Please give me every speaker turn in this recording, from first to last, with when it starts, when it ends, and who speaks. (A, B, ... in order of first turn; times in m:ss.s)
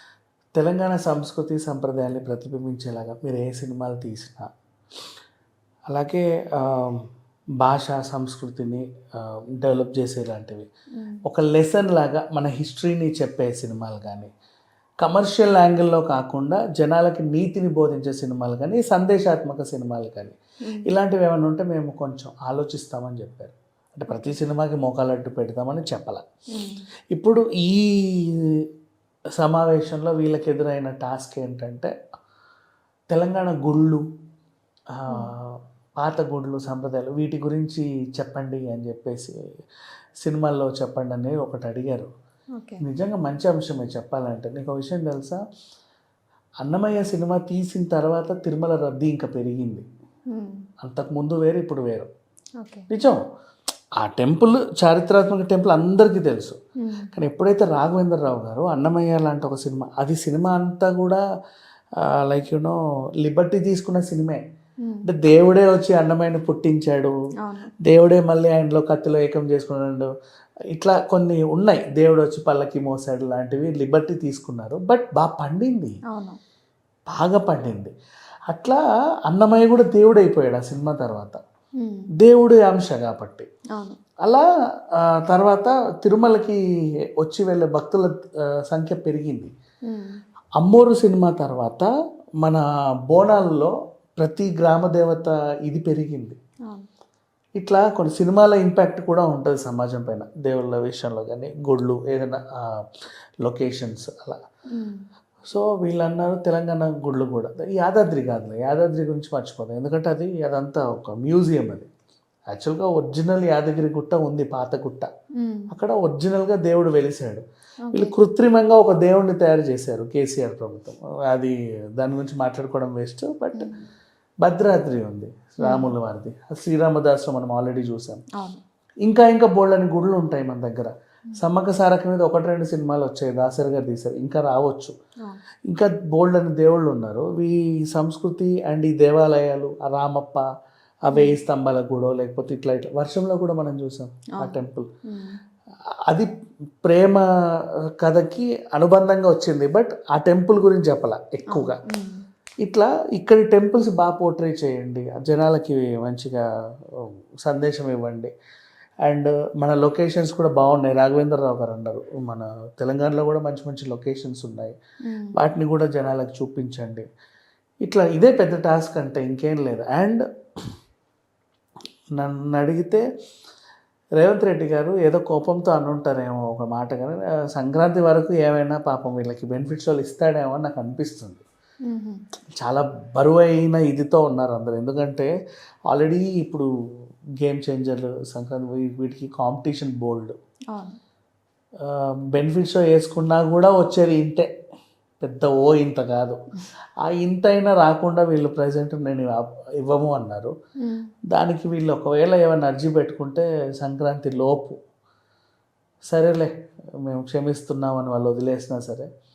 0:00.6-0:04.5 A
0:05.9-0:07.0 A
0:07.6-0:10.7 A
0:11.2-0:14.3 A
0:15.0-0:26.2 A
0:24.1-0:24.4 B
0:26.5-0:26.8 B
0:27.1-0:28.4 A
0:29.4-0:31.9 A
0:33.1-0:34.0 A
0:35.0-0:39.3 A
0:40.2-0:42.1 A
0:42.6-0:42.8 B
0:42.8-0:45.4 A
0:46.6-0:49.8 A
0:50.3-0:50.6 B
0:50.8-0:52.1 A
0:52.6-0:52.9 B
0:52.9-0:53.2 A
0:54.0-0:56.6 A
0:56.8-0:57.1 B
0:57.1-1:01.2 A
1:02.0-1:04.4 A
1:05.0-1:07.1 A
1:07.4-1:07.7 B
1:07.8-1:10.1 A
1:10.7-1:16.0 A
1:16.1-1:16.4 B
1:17.1-1:17.9 A
1:18.5-1:21.4 A
1:21.8-1:22.1 B
1:22.2-1:23.5 A
1:23.7-1:24.0 B
1:25.1-1:26.6 A
1:27.2-1:28.1 A
1:28.7-1:29.5 A
1:29.9-1:30.2 B
1:30.6-1:31.9 A
1:32.4-1:36.4 A
1:37.6-1:42.8 A
1:43.4-1:44.4 A
1:44.7-1:45.0 B
1:45.5-1:51.9 A
1:52.5-1:55.1 A
1:55.4-1:55.7 B
1:55.7-2:03.7 A
1:57.9-1:58.1 B
2:04.4-2:08.2 A
2:05.6-2:05.9 B
2:08.3-2:08.6 B
2:09.0-2:14.9 A
2:15.7-2:20.4 A
2:21.1-2:24.9 A
2:25.1-2:25.4 B
2:26.8-2:27.2 A
2:28.0-2:31.8 A
2:31.5-2:32.2 B
2:32.6-2:36.4 A
2:37.0-2:38.3 A
2:39.0-2:44.8 A
2:45.0-2:45.3 B
2:45.3-2:47.0 A
2:47.8-2:50.2 A
2:52.2-2:53.0 A
2:54.2-3:01.4 A
3:01.9-3:02.2 B
3:02.6-3:05.3 A
3:05.9-3:06.7 A
3:07.4-3:10.3 A
3:11.8-3:14.5 A
3:15.2-3:16.4 A
3:17.1-3:20.5 A
3:21.3-3:24.8 A
3:26.1-3:26.5 A
3:27.0-3:29.1 A